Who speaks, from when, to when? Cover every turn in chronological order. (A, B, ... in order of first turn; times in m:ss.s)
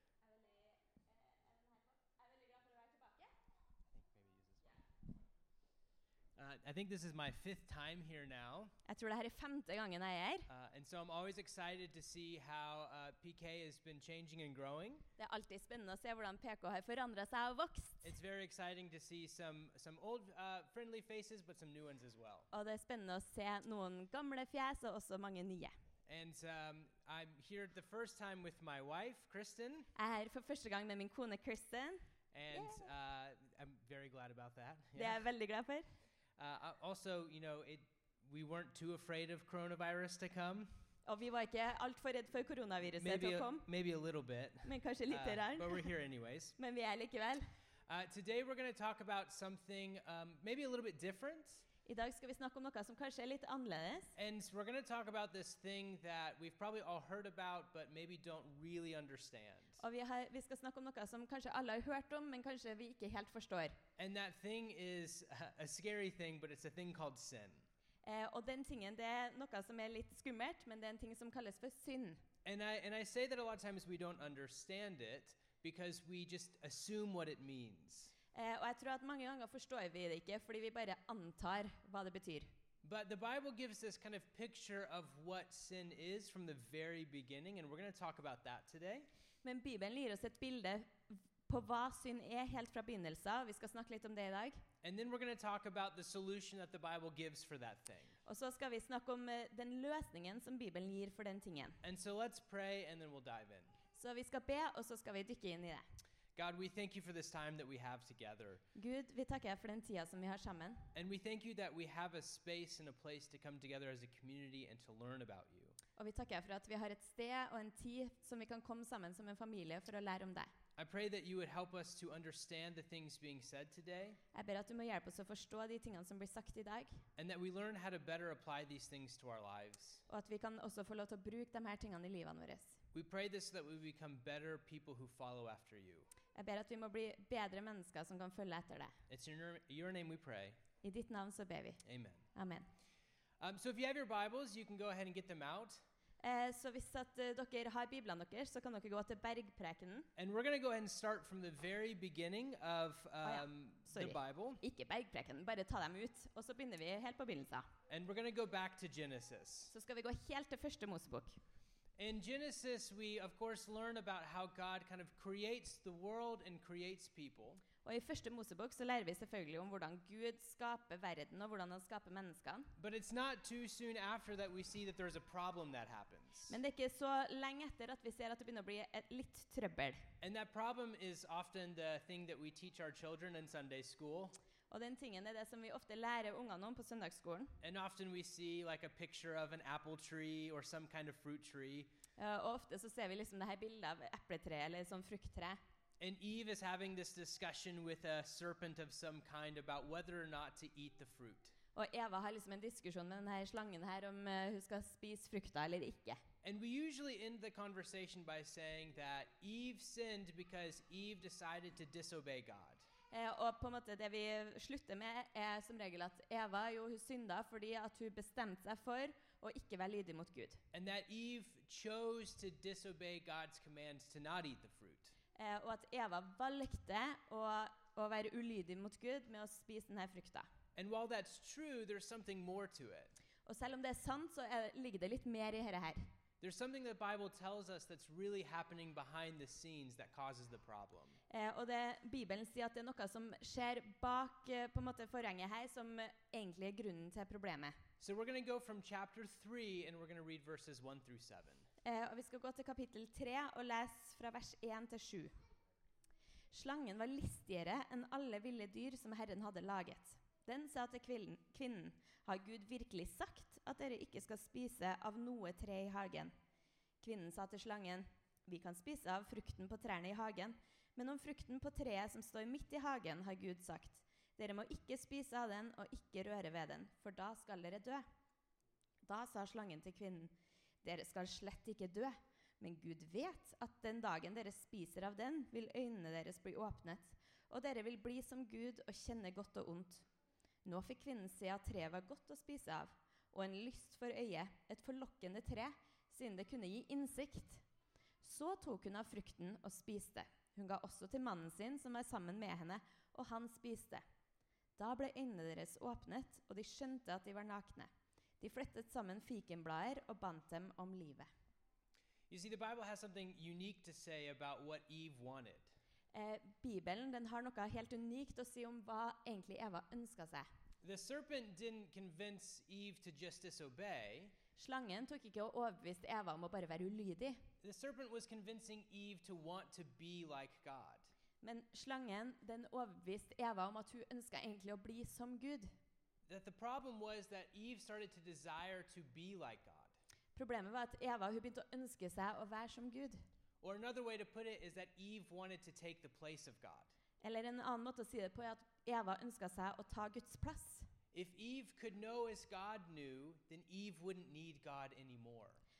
0:00.3-0:03.3 A
0:03.9-0:04.8 B
0:06.4-0:08.7 B
0:08.8-0:10.5 A
0:10.5-0:15.0 B
0:15.2-0:18.1 A
0:18.0-0:22.5 B
0:22.5-0:25.7 A
0:26.0-0:29.9 B
0:29.9-0:32.8 A
0:32.3-0:35.2 B
0:34.9-0:35.9 A
0:36.4-0:40.7 B
0:41.0-0:43.7 A
0:43.0-0:46.5 B
0:44.6-0:45.9 A
0:46.6-0:47.5 A
0:47.9-0:51.6 B
0:51.8-0:54.1 A
0:54.2-0:59.8 B
0:59.8-1:03.8 A
1:04.0-1:07.6 B
1:08.0-1:12.2 A
1:12.4-1:18.1 B
1:18.3-1:22.5 A
1:22.8-1:29.1 B
1:29.4-1:34.6 A
1:34.8-1:38.2 B
1:38.2-1:41.8 A
1:41.8-1:43.7 B
1:43.9-1:45.8 A
1:46.4-1:48.6 B
1:48.7-1:50.9 A
1:50.9-1:55.8 B
1:56.0-2:00.5 A
2:00.8-2:04.2 B
2:04.3-2:07.0 A
2:07.2-2:10.0 B
2:10.1-2:12.8 A
2:12.9-2:16.1 B
2:16.3-2:19.0 A
2:19.1-2:20.6 B
2:20.8-2:21.8 A
2:21.8-2:22.2 B
2:22.3-2:22.7 A
2:23.4-2:25.8 B
2:26.2-2:30.1 A
2:30.2-2:34.6 B
2:33.2-2:37.7 A
2:37.9-2:39.7 B
2:39.7-2:41.4 A
2:42.0-2:47.6 B
2:47.8-2:52.7 A
2:52.8-2:56.6 B
2:56.5-3:00.1 A
3:00.2-3:04.3 B
3:04.7-3:07.6 A
3:07.6-3:11.9 B
3:12.2-3:15.6 A
3:16.0-3:21.5 B
3:21.7-3:26.2 A
3:26.4-3:32.8 B
3:33.1-3:40.6 A
3:40.7-3:45.1 B
3:45.3-3:50.5 A
3:50.8-3:53.1 B
3:53.4-3:56.1 A
3:56.4-4:01.2 B
4:01.3-4:07.8 A
4:08.0-4:11.7 B
4:11.8-4:15.3 A
4:16.5-4:26.3 A
4:27.0-4:38.0 A
4:39.0-4:50.0 A
4:50.6-4:57.6 A
4:58.2-5:04.0 A
5:04.8-5:11.3 A
5:12.3-5:15.7 B
5:16.1-5:20.5 A
5:20.8-5:24.4 B
5:24.6-5:27.5 A
5:27.6-5:31.1 B
5:31.4-5:35.7 A
5:36.3-5:39.9 B
5:40.4-5:43.2 A
5:43.6-5:46.9 B
5:47.2-5:50.9 A
5:51.1-5:55.6 B